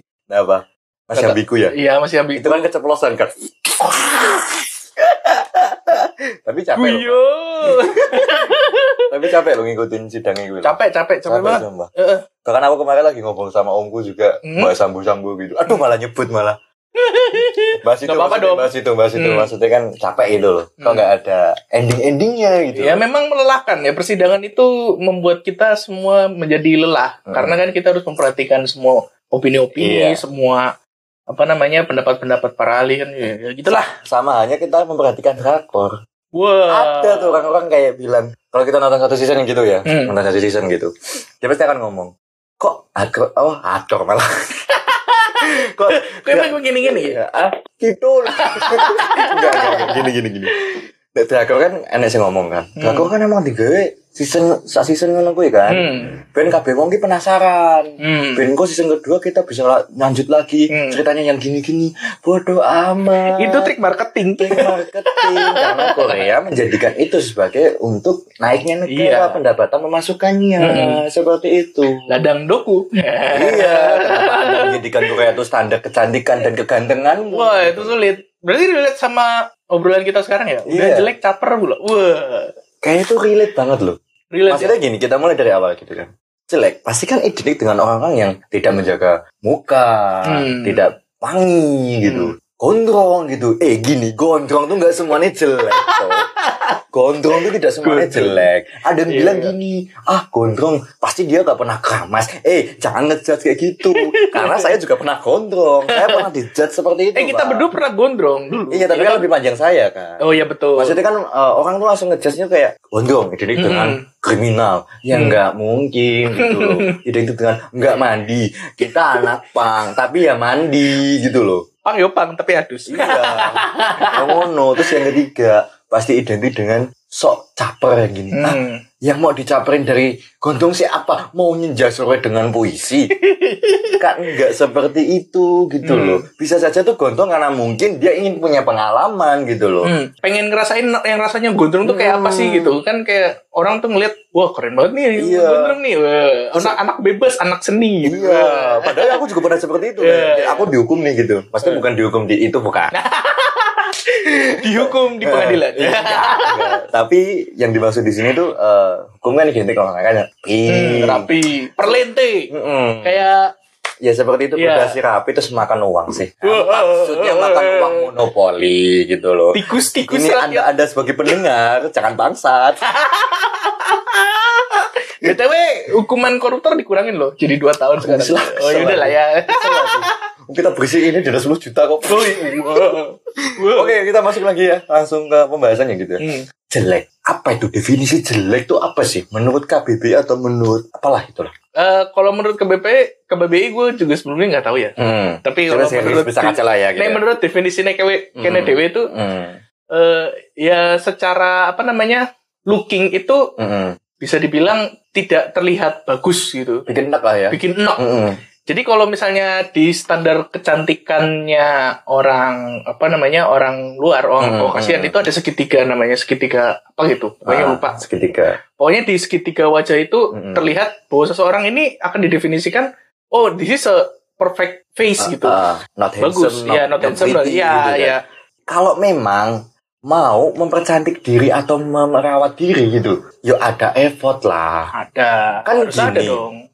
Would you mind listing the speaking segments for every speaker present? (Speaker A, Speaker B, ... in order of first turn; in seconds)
Speaker A: 0.3-1.8, 2.4-8.5, 9.1-11.9, 12.4-16.6, 17.8-23.0, 27.3-27.6, 29.8-30.2, 33.9-36.0, 36.7-44.2, 45.4-50.6, 51.1-63.7, 64.4-72.0, 73.3-78.0, 80.7-81.1, 82.8-84.0, 84.5-96.3, 96.9-107.7, 108.7-110.2, 110.8-121.6, 122.9-123.6, 124.2-133.1, 134.0-139.9, 141.8-142.8, 145.2-145.8, 148.1-152.9, 154.6-161.2, 162.5-163.2, 164.0-172.8, 178.0-183.0, 183.7-191.5, 195.0-197.2, 198.4-199.6, 203.6-203.9, 206.9-208.4, 214.4-215.2, 217.5-218.6, 220.3-220.7, 225.2-228.2, 228.7-234.9, 235.7-236.4
Speaker B: 1.1-2.7, 6.8-9.0, 10.6-12.2, 14.5-14.7, 17.0-19.5, 20.8-21.1, 22.8-30.7, 31.3-33.9, 36.4-37.4, 39.9-40.1, 44.9-47.2, 48.4-50.1, 52.8-53.1, 55.7-56.1, 58.0-58.5, 60.7-61.0, 63.3-66.3, 68.9-69.4, 70.6-71.0, 72.1-74.8, 77.3-82.5, 84.3-84.8, 90.3-90.9, 92.1-92.3, 95.7-96.8, 97.4-98.5, 99.1-99.5, 103.8-104.8, 105.9-106.2, 107.2-109.3, 110.2-111.0, 113.6-113.9, 115.1-115.4, 116.4-116.9, 121.9-124.9, 128.3-128.8, 133.2-134.0, 135.8-136.2, 139.8-149.2, 150.0-150.7, 152.9-153.9, 154.6-156.6, 160.7-162.5, 163.0-163.4, 164.6-165.0, 166.4-168.1, 169.5-170.7, 172.9-180.1, 182.1-183.9, 191.8-199.1, 199.9-203.4, 204.2-206.8, 207.5-208.0, 208.7-218.0, 218.8-225.6, 226.2-228.2, 234.9-236.6